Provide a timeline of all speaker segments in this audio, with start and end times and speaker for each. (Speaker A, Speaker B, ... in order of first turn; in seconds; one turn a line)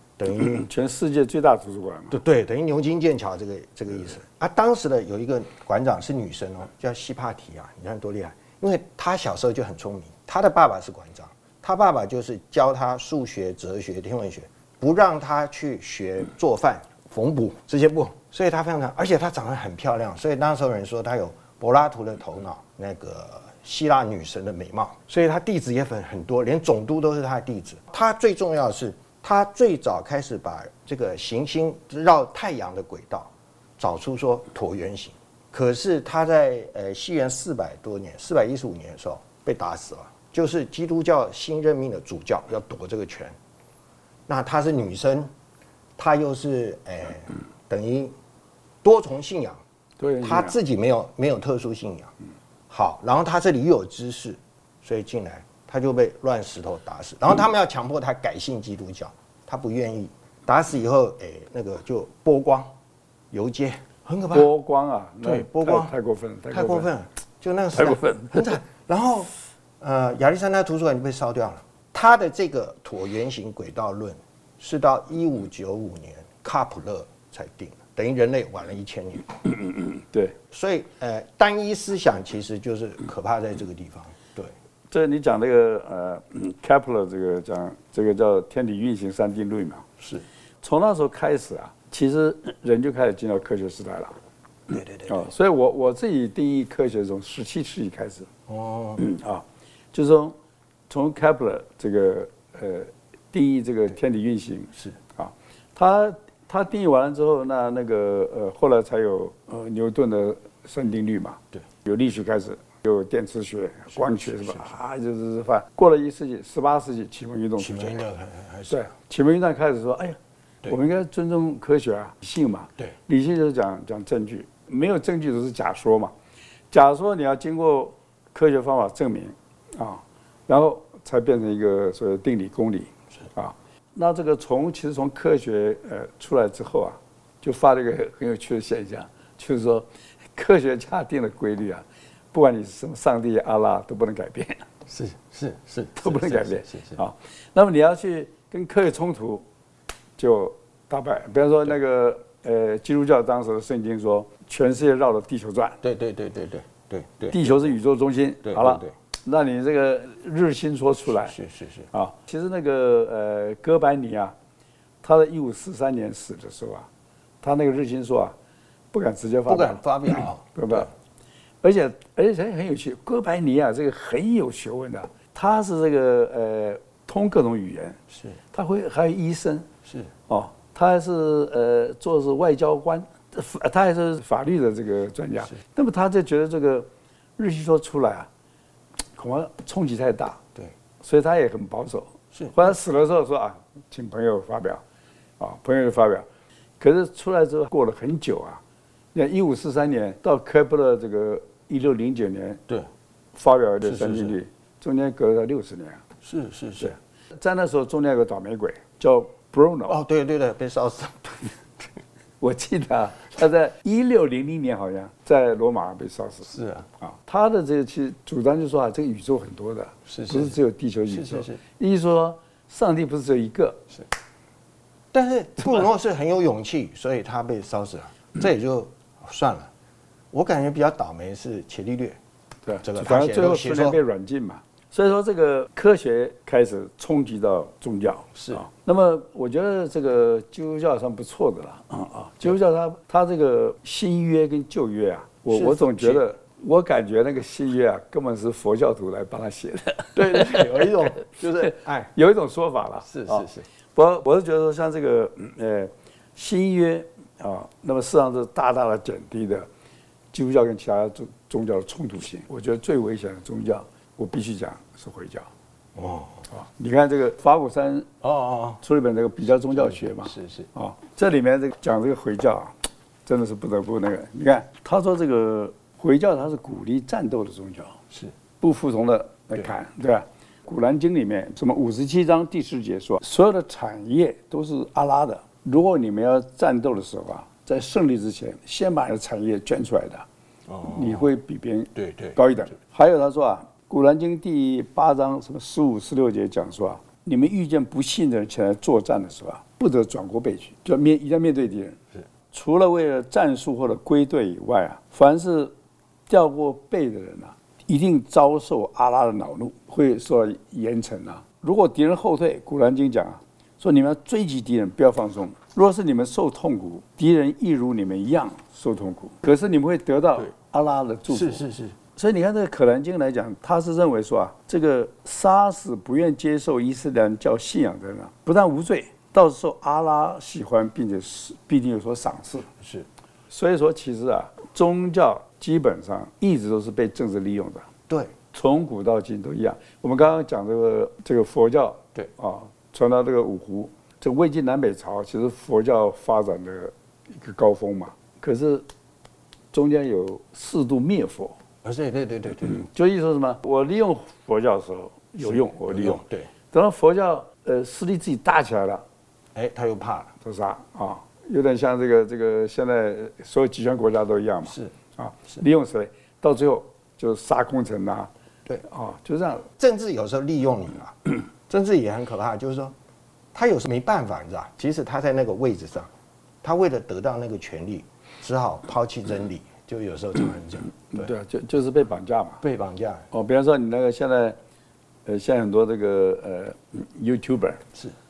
Speaker A: 0.2-0.7
Speaker B: 0.5-2.2
Speaker A: 2.1-43.3
Speaker A: 44.3-45.3
Speaker A: 46.0-48.1
Speaker A: 48.8-49.6
Speaker B: 50.0-50.5
Speaker A: 50.2-52.1
Speaker A: 52.7-62.7
Speaker A: 63.3-64.5
Speaker B: 64.3-66.9
Speaker A: 65.2-66.0
Speaker A: 66.5-79.3
Speaker B: 67.7-68.5
Speaker B: 80.0-80.3
Speaker A: 80.5-84.5
Speaker B: 84.9-89.8
Speaker B: 90.6-94.2
Speaker A: 94.7-95.3
Speaker B: 95.1-98.3
Speaker A: 98.5-99.0
Speaker B: 99.0-100.3
Speaker B: 100.9-118.0
Speaker A: 114.1-114.5
Speaker A: 117.6-118.8
Speaker B: 118.7-126.1
Speaker B: 126.7-144.7
Speaker A: 144.9-147.0
Speaker B: 146.0-149.4
Speaker B: 150.2-155.8
Speaker A: 155.8-157.7
Speaker B: 157.3-161.3
Speaker A: 158.4-158.9
Speaker A: 161.2-161.9
Speaker B: 161.9-164.3
Speaker B: 165.0-166.9
Speaker B: 167.4-168.3
Speaker B: 168.9-170.9
Speaker A: 169.5-170.9
Speaker B: 171.6-178.0
Speaker B: 178.5-179.7
Speaker B: 180.3-188.3
Speaker B: 189.2-190.4
Speaker B: 191.0-194.8
Speaker B: 195.4-196.3
Speaker B: 196.8-198.6
Speaker B: 199.1-202.6
Speaker B: 203.3-206.0
Speaker A: 203.8-204.4
Speaker A: 206.2-207.0
Speaker B: 206.8-210.0
Speaker A: 209.9-211.6
Speaker B: 212.4-223.8
Speaker A: 216.5-216.9
Speaker A: 220.1-220.6
Speaker A: 221.1-221.6
Speaker A: 225.1-229.7
Speaker A: 230.3-232.2
Speaker B: 232.7-250.8
Speaker A: 232.8-234.0
Speaker A: 238.4-238.6
Speaker A: 245.5-246.3
Speaker A: 250.2-252.1
Speaker B: 251.6-259.7
Speaker A: 253.1-253.7
Speaker B: 260.3-265.5
Speaker A: 265.9-266.5
Speaker B: 266.5-268.1
Speaker A: 268.2-268.8
Speaker B: 268.8-272.7
Speaker A: 269.8-270.7
Speaker B: 273.3-278.0
Speaker B: 278.6-290.3
Speaker A: 290.7-291.3
Speaker B: 290.9-302.0
Speaker A: 292.0-292.4
Speaker B: 302.5-305.7
Speaker B: 306.3-332.7
Speaker A: 321.3-322.0
Speaker A: 332.8-333.1
Speaker B: 333.5-337.9
Speaker A: 338.1-338.3
Speaker B: 338.5-348.9
Speaker B: 349.7-351.6
Speaker A: 351.8-352.8
Speaker B: 352.7-359.0
Speaker A: 355.5-356.5
Speaker A: 359.6-360.3
Speaker B: 360.4-369.7
Speaker A: 364.6-364.9
Speaker A: 369.7-372.9
Speaker A: 373.5-376.1
Speaker A: 376.6-381.3
Speaker B: 381.1-382.6
Speaker A: 382.6-383.3
Speaker B: 383.3-384.6
Speaker B: 385.3-387.8